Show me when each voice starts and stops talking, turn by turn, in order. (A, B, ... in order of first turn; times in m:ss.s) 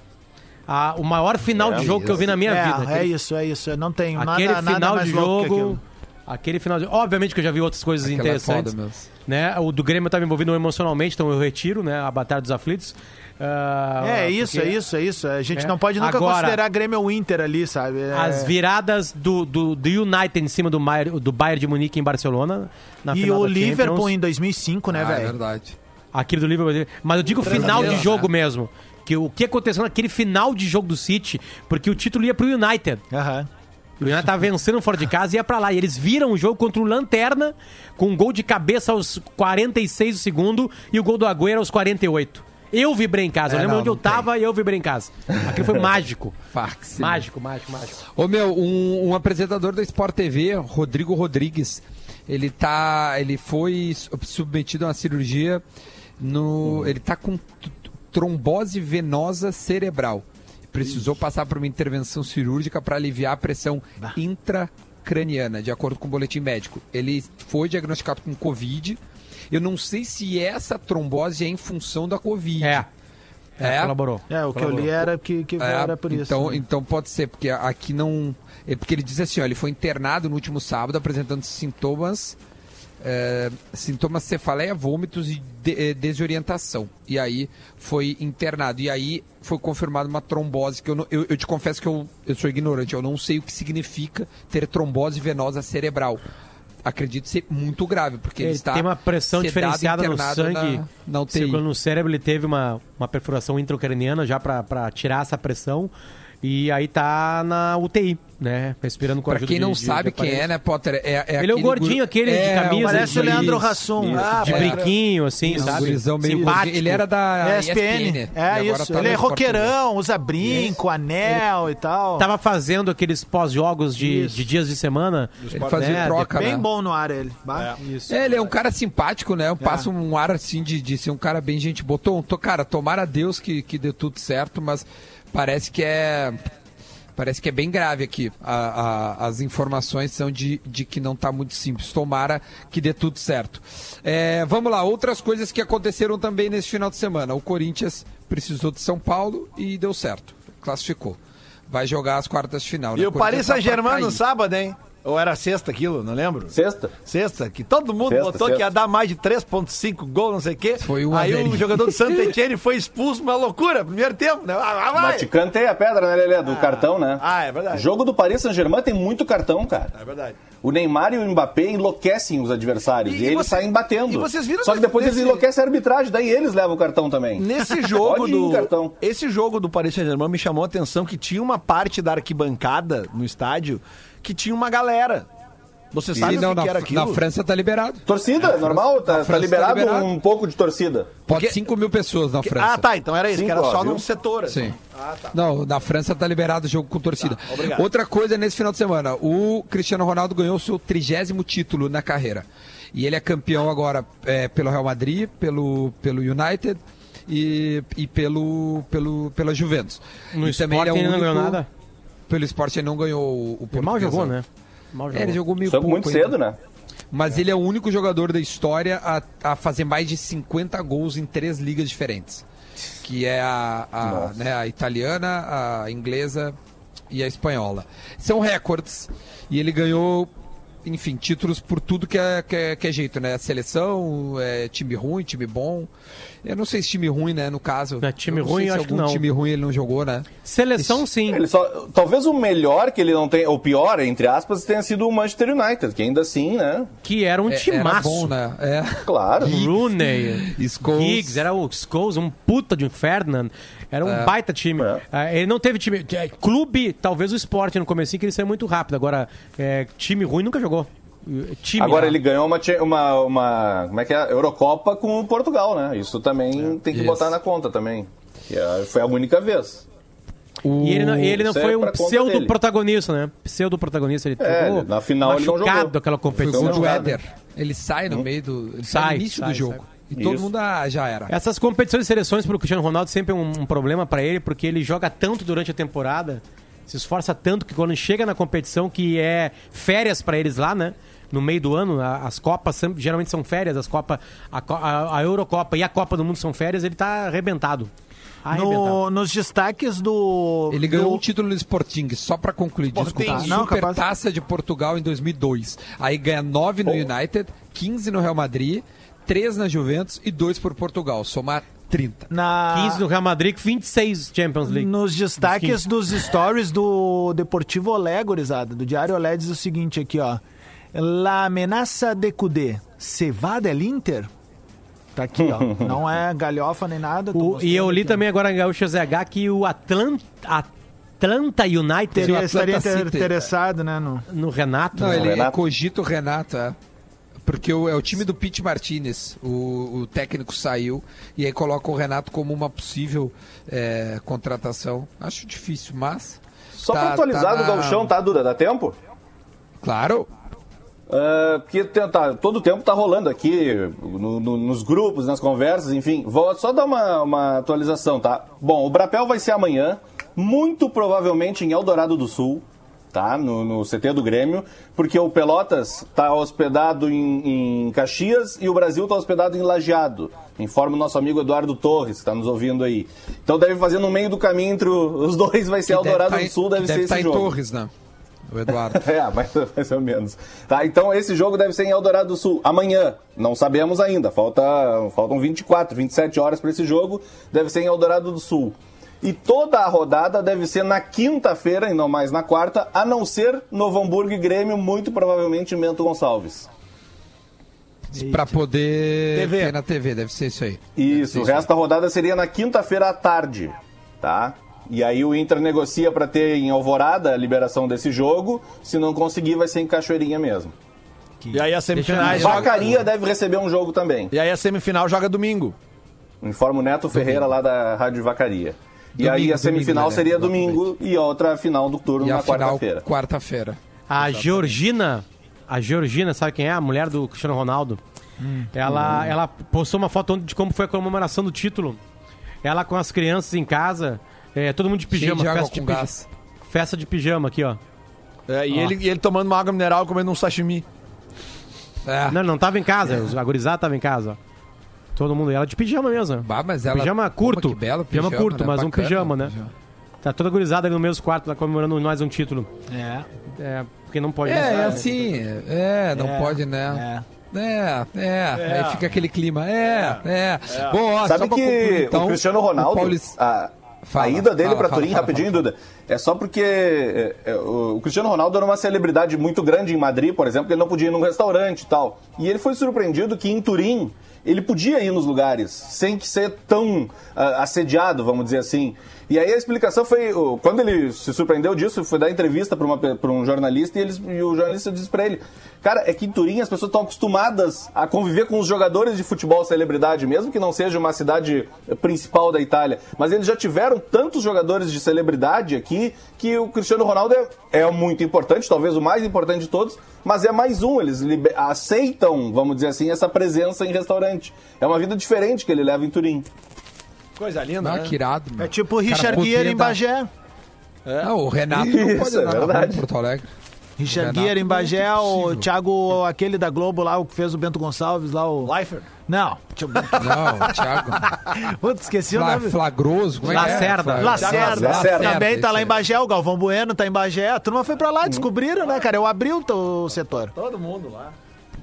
0:00.7-0:03.1 A
0:01.5-0:02.2 B
0:01.8-0:02.2 C
0:02.3-0:05.8 D
0:04.2-0:08.7 A
0:08.0-0:09.1 C
0:09.3-0:14.8 A
0:14.0-0:18.5 D
0:15.5-0:16.6 A
0:18.1-0:24.1 A
0:23.1-0:25.4 D
0:24.9-0:25.8 C
0:26.1-0:33.0 A
0:27.4-0:28.3 C
0:27.5-0:27.9 E
0:33.1-0:33.5 D
0:34.0-0:46.4 A
0:43.5-0:44.3 C
0:46.5-0:47.2 C
0:47.0-0:48.0 A
0:48.1-0:55.6 C
0:56.2-1:09.0 C
1:09.5-1:12.8 C
1:12.6-1:12.9 A
1:13.6-1:14.9 A
1:13.6-1:14.0 C
1:14.3-1:16.6 D
1:14.6-1:15.0 C
1:15.6-1:22.4 C
1:23.0-1:36.2 C
1:36.8-1:41.6 C
1:38.4-1:45.9 A
1:46.4-1:50.5 A
1:49.2-1:59.7 C
1:51.4-1:53.6 A
1:52.8-1:54.7 D
1:54.0-1:54.4 B
1:54.1-1:54.9 E
1:54.4-1:57.0 A
1:55.5-1:55.9 D
1:57.4-2:02.3 D
2:02.2-2:06.6 A
2:04.0-2:04.4 D
2:05.4-2:06.1 E
2:05.5-2:06.6 C
2:06.3-2:08.0 D
2:07.5-2:07.8 E
2:08.1-2:16.4 C
2:09.6-2:09.9 D
2:17.1-2:34.2 C
2:33.0-2:36.5 E
2:36.5-2:36.9 B
2:37.0-2:45.3 E
2:38.0-2:38.7 B
2:40.8-2:42.3 C
2:44.9-2:49.9 B
2:46.4-2:47.9 E
2:49.9-2:50.4 E
2:50.6-2:58.9 B
2:53.0-2:55.4 E
2:57.4-3:05.3 E
3:05.9-3:07.2 E
3:06.1-3:10.1 C
3:06.2-3:06.4 B
3:08.0-3:11.2 B
3:11.3-3:12.8 C
3:11.3-3:11.6 E
3:12.4-3:15.4 E
3:13.3-3:14.0 B
3:14.5-3:14.7 C
3:15.3-3:31.6 C
3:17.2-3:17.8 E
3:30.3-3:31.7 A
3:32.3-3:34.4 C
3:33.7-3:35.4 A
3:35.1-3:36.4 C
3:35.6-3:36.6 B
3:37.1-3:42.4 C
3:43.0-3:46.6 C
3:44.0-3:44.4 B
3:47.1-3:50.3 C
3:50.8-3:55.9 C
3:56.4-4:01.0 C
3:58.0-3:59.2 A
4:00.4-4:01.4 A
4:01.3-4:06.9 B
4:07.0-4:08.3 A
4:07.5-4:11.4 C
4:09.0-4:09.6 B
4:09.4-4:22.2 A
4:14.0-4:14.3 C
4:14.8-4:15.0 B
4:21.8-4:29.8 B
4:26.9-4:27.3 C
4:30.6-4:31.4 C
4:30.8-4:37.1 A
4:31.4-4:32.5 B
4:34.4-4:37.2 B
4:36.4-4:41.3 C
4:38.8-4:39.8 A
4:40.1-4:40.5 B
4:41.3-4:57.9 A
4:58.4-4:59.0 A
4:58.5-5:01.2 D
5:00.7-5:12.3 C
5:02.9-5:03.7 E
5:03.2-5:04.0 D
5:12.3-5:13.0 D
5:12.7-5:15.8 A
5:14.7-5:20.4 D
5:20.9-5:24.3 D
5:25.1-5:28.2 D
5:25.4-5:25.9 B
5:27.3-5:32.5 A
5:32.2-5:33.3 C
5:32.2-5:34.2 D
5:34.3-5:35.4 A
5:34.9-5:36.8 C
5:35.0-5:35.6 B
5:37.4-5:48.1 C
5:46.8-5:48.9 B
5:49.8-5:50.3 C
5:51.1-6:17.5 B
6:15.9-6:17.9 C
6:18.5-6:19.1 C
6:18.7-6:36.7 B
6:38.1-6:41.7 C
6:38.1-6:38.6 D
6:39.3-6:39.8 E
6:41.0-6:50.7 B
6:51.5-6:52.7 E
6:51.9-6:52.8 A
6:52.2-6:52.8 C
6:52.2-6:54.3 B
6:54.3-6:55.8 E
6:56.4-7:03.0 B
6:57.1-6:57.5 C
6:59.2-7:00.8 C
7:02.2-7:04.7 C
7:04.1-7:08.0 A
7:08.4-7:08.7 D
7:08.7-7:12.0 A
7:08.9-7:09.3 C
7:12.6-7:16.1 A
7:15.1-7:16.3 C
7:16.7-7:17.8 A
7:18.5-7:20.8 E
7:22.0-7:22.4 C
7:22.3-7:24.4 A
7:25.2-7:29.5 A
7:26.4-7:29.7 C
7:30.2-7:32.7 A
7:32.9-7:33.3 D
7:33.5-7:35.2 A
7:34.4-7:43.4 C
7:36.1-7:37.2 D
7:38.5-7:39.2 E
7:39.8-7:41.0 E
7:41.2-8:26.4 B
7:44.0-7:45.6 C
8:27.4-8:28.2 E
8:27.8-8:30.0 C
8:28.6-8:30.3 D
8:31.0-8:31.3 E
8:31.2-8:33.5 C
8:31.7-8:33.0 B
8:34.0-8:38.7 D
8:34.1-8:35.7 C
8:38.6-8:39.1 E
8:39.3-8:42.8 D
8:40.1-8:41.4 C
8:42.3-8:46.0 C
8:43.4-8:44.6 A
8:43.5-8:50.5 D
8:44.2-8:45.0 E
8:44.5-8:45.4 B
8:50.5-8:51.3 E